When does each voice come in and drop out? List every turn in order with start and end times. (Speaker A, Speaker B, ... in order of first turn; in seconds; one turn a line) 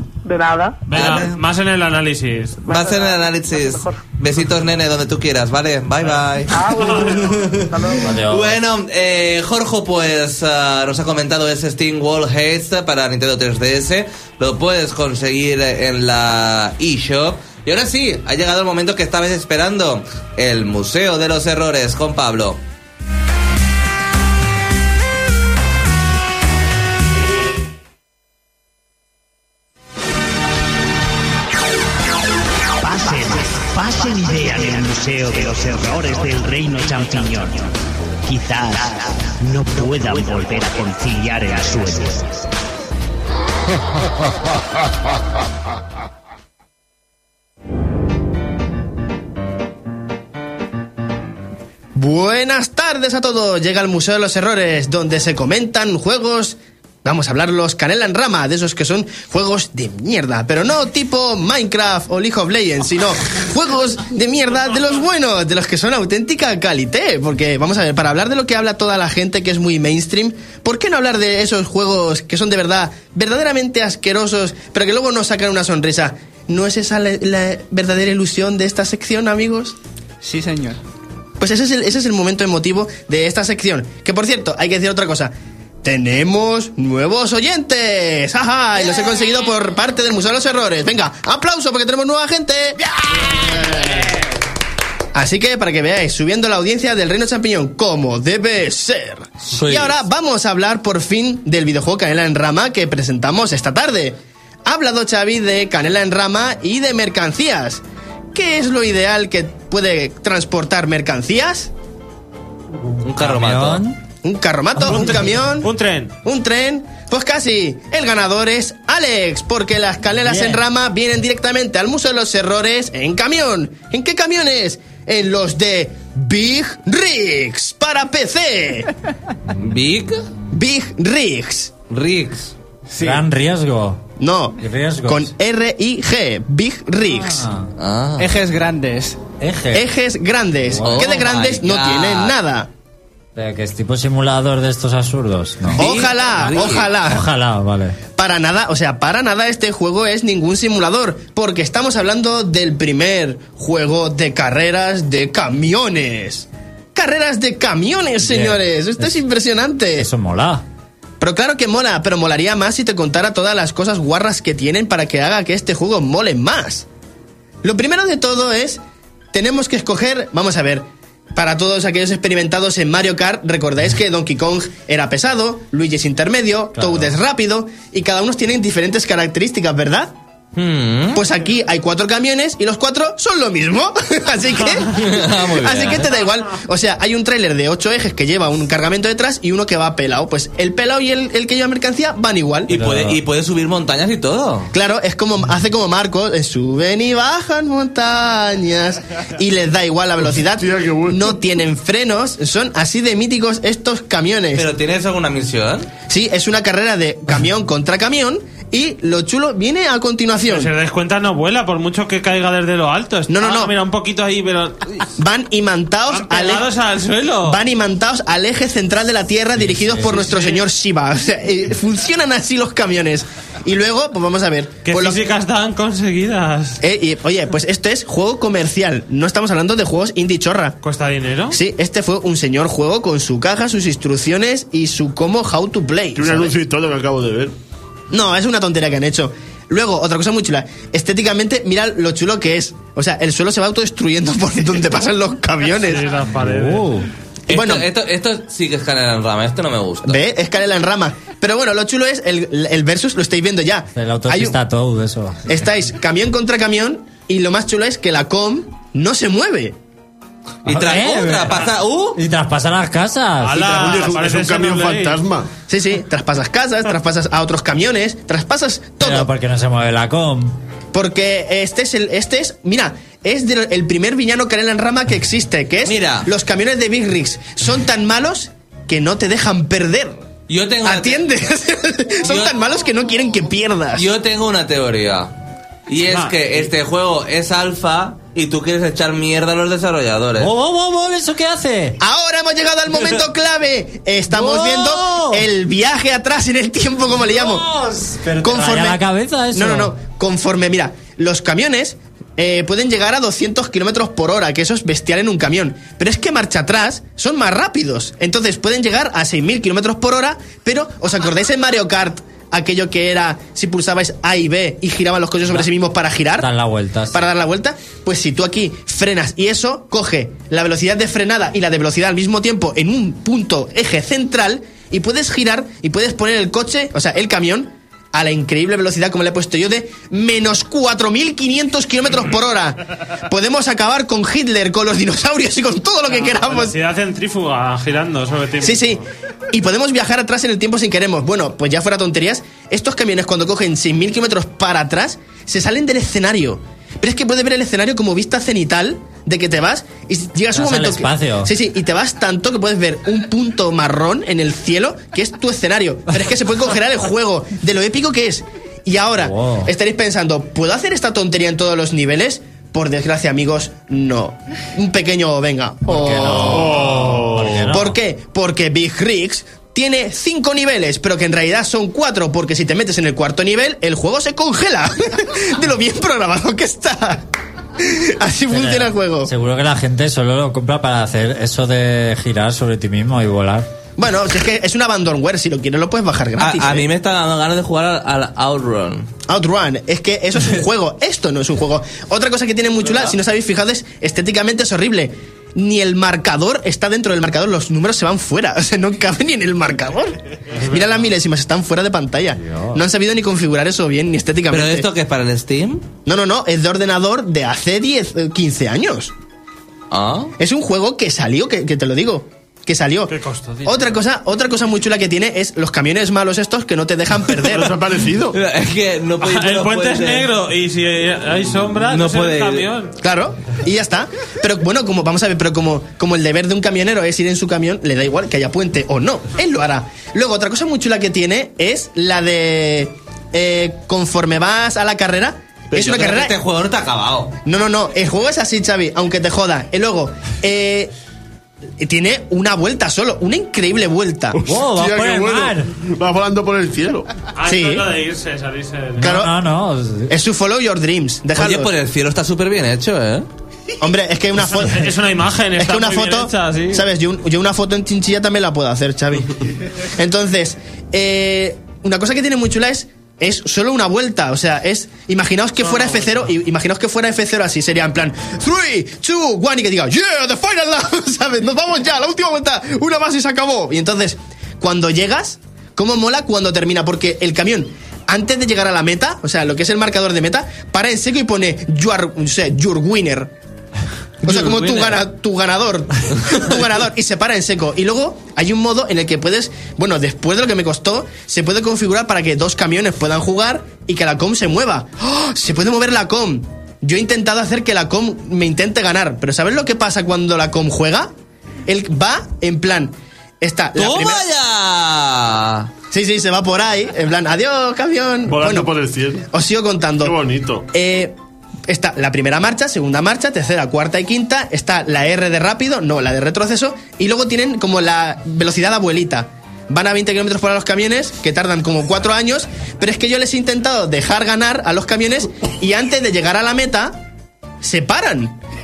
Speaker A: 0.2-0.8
Speaker B: 0.9-2.6
Speaker C: 0.9-1.4
Speaker A: 2.6-4.0
Speaker C: 2.7-22.6
Speaker A: 6.5-8.2
Speaker D: 8.0-8.6
Speaker E: 32.8-37.7
Speaker E: 38.2-42.5
Speaker F: 51.9-79.8
Speaker G: 80.2-80.8
Speaker F: 81.4-85.3
Speaker F: 85.8-93.9
Speaker F: 95.1-107.8
Speaker C: 99.5-100.0
Speaker F: 108.3-111.7
Speaker C: 113.0-113.8
Speaker D: 113.2-114.0
Speaker F: 114.2-115.7
Speaker B: 114.8-116.1
Speaker F: 116.2-128.9
Speaker D: 120.2-120.6
Speaker C: 129.5-130.3
Speaker F: 130.5-131.7
Speaker C: 131.9-132.5
Speaker G: 132.9-133.2
Speaker D: 133.0-134.1
Speaker F: 134.2-137.5
Speaker D: 134.6-135.3
Speaker D: 137.1-137.7
Speaker C: 137.8-138.3
Speaker G: 138.2-139.2
Speaker D: 139.4-139.9
Speaker F: 139.7-142.7
Speaker D: 140.7-141.2
Speaker C: 140.8-142.3
Speaker D: 143.3-145.9
Speaker C: 145.7-146.9
Speaker F: 145.8-147.2
Speaker D: 147.0-148.0
Speaker F: 148.1-160.1
Speaker D: 158.2-159.2
Speaker D: 159.9-160.6
Speaker F: 161.2-166.8
Speaker F: 167.6-168.8
Speaker F: 169.3-180.1
Speaker D: 176.8-177.1
Speaker C: 180.6-181.2
Speaker F: 181.1-192.7
Speaker C: 184.9-186.1
Speaker C: 192.7-194.7
Speaker D: 192.7-193.2
Speaker F: 194.7-204.6
Speaker H: 200.3-201.4
Speaker C: 204.5-205.9
Speaker F: 206.1-210.7
Speaker B: 210.4-215.1
Speaker F: 213.3-213.7
Speaker F: 215.2-216.7
Speaker B: 216.1-217.6
Speaker F: 217.4-225.2
Speaker D: 219.6-220.4
Speaker B: 224.8-226.8
Speaker F: 226.8-230.8
Speaker B: 230.8-231.6
Speaker F: 231.5-236.5
Speaker H: 236.2-237.5
Speaker F: 238.1-246.1
Speaker B: 245.8-247.0
Speaker D: 246.3-247.1
Speaker C: 247.5-250.2
Speaker F: 247.5-247.8
Speaker F: 250.1-254.6
Speaker D: 253.9-255.5
Speaker F: 255.4-259.7
Speaker C: 260.6-262.2
Speaker D: 260.6-264.0
Speaker B: 263.4-265.2
Speaker H: 263.6-265.5
Speaker F: 265.7-269.3
Speaker D: 269.0-270.6
Speaker F: 270.9-280.2
Speaker C: 275.8-276.3
Speaker C: 280.5-281.2
Speaker F: 280.8-284.1
Speaker C: 282.2-282.6
Speaker C: 283.9-285.3
Speaker C: 285.9-290.5
Speaker D: 290.4-292.0
Speaker F: 292.0-297.7
Speaker D: 294.3-295.4
Speaker D: 297.2-299.9
Speaker F: 298.4-299.0
Speaker F: 299.5-316.5
Speaker D: 316.4-317.2
Speaker F: 317.1-336.7
Speaker B: 336.1-339.0
Speaker F: 338.6-339.0
Speaker F: 339.5-367.0
Speaker D: 350.5-351.5
Speaker D: 359.2-359.7
Speaker D: 365.9-368.0
Speaker H: 366.3-367.6
Speaker F: 367.6-377.3
Speaker F: 377.8-379.3
Speaker D: 378.5-383.7
Speaker F: 384.0-386.9
Speaker C: 386.4-389.1
Speaker F: 389.3-404.9
Speaker B: 400.5-401.1
Speaker D: 402.3-402.8
Speaker C: 404.5-405.9
Speaker F: 406.0-409.1
Speaker C: 409.9-410.3
Speaker F: 410.4-413.1
Speaker B: 413.1-413.9
Speaker F: 413.6-417.8
Speaker H: 417.4-418.3
Speaker C: 418.3-420.3
Speaker B: 419.2-422.9
Speaker C: 421.9-422.7
Speaker F: 423.0-436.4
Speaker C: 435.7-437.3
Speaker F: 437.4-440.9
Speaker F: 441.8-444.4
Speaker H: 444.3-447.1
Speaker D: 444.4-445.7
Speaker B: 447.4-449.1
Speaker F: 447.4-447.9
Speaker D: 449.0-450.1
Speaker F: 449.0-449.3
Speaker F: 450.1-451.7
Speaker C: 451.4-453.2
Speaker F: 453.8-454.9
Speaker B: 454.4-456.9
Speaker F: 455.6-483.3
Speaker B: 465.7-466.2
Speaker F: 484.2-501.1
Speaker C: 484.2-484.9
Speaker F: 501.7-504.2
Speaker C: 503.7-505.7
Speaker F: 505.9-508.7
Speaker H: 508.3-509.3
Speaker F: 509.3-510.2
Speaker H: 510.0-510.6
Speaker F: 510.7-511.1
Speaker F: 511.7-527.0
Speaker F: 527.6-528.4